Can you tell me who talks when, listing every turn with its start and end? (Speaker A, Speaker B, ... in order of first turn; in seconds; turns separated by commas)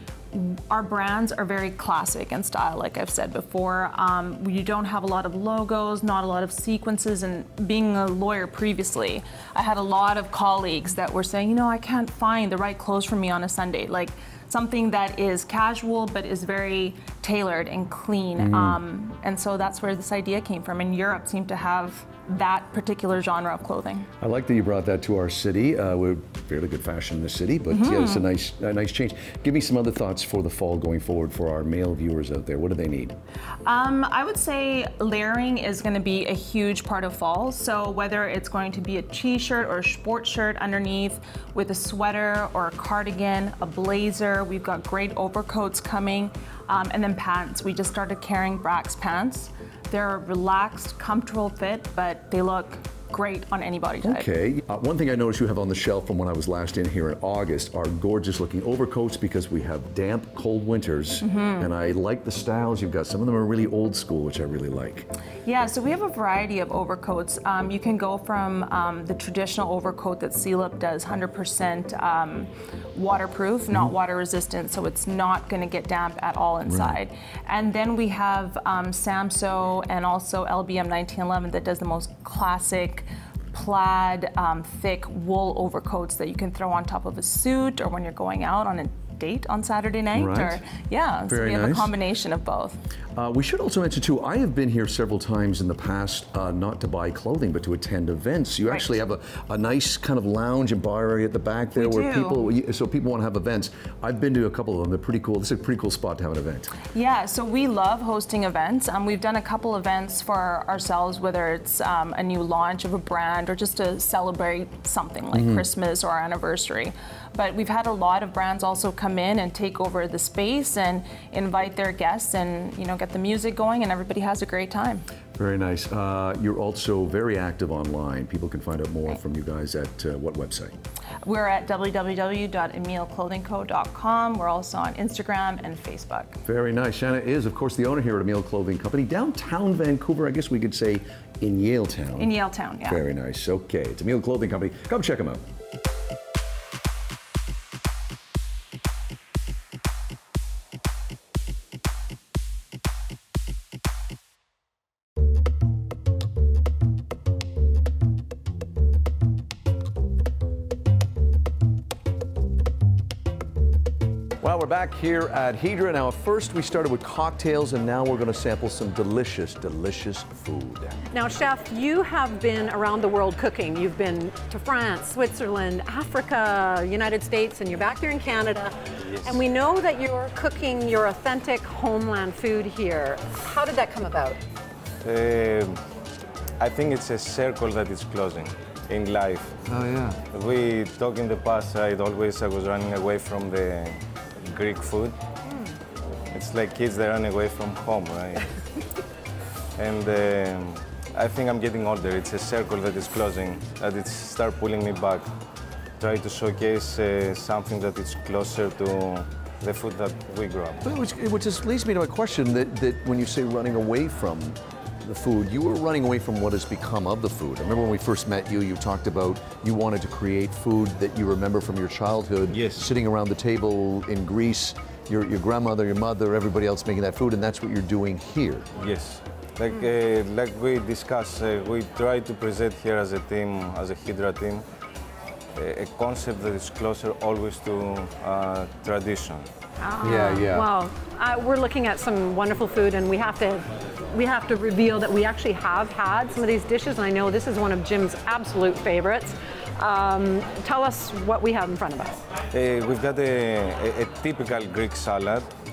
Speaker A: 0.3-24.1, Speaker B: 18.4-18.8, Speaker B: 24.2-33.2, Speaker A: 27.7-28.2, Speaker A: 33.6-54.3, Speaker B: 54.0-65.1, Speaker A: 61.2-61.7, Speaker A: 65.5-92.8, Speaker B: 76.7-77.0, Speaker B: 90.1-90.6, Speaker B: 91.3-91.9, Speaker B: 93.2-106.8, Speaker A: 101.8-102.4, Speaker A: 106.9-125.1, Speaker B: 115.3-115.7, Speaker B: 125.4-130.8, Speaker A: 131.2-136.4, Speaker B: 136.4-145.4, Speaker A: 142.2-143.0, Speaker B: 164.4-171.0, Speaker C: 171.1-184.4, Speaker D: 185.0-185.8, Speaker D: 186.6-189.6, Speaker B: 189.7-190.2, Speaker D: 190.3-195.2, Speaker D: 196.3-198.4, Speaker D: 199.8-205.3, Speaker D: 206.0-210.8, Speaker B: 210.8-228.7, Speaker D: 222.5-222.9, Speaker D: 228.8-234.7, Speaker D: 235.6-239.5, Speaker C: 239.8-252.2, Speaker B: 240.0-240.7, Speaker D: 252.5-255.5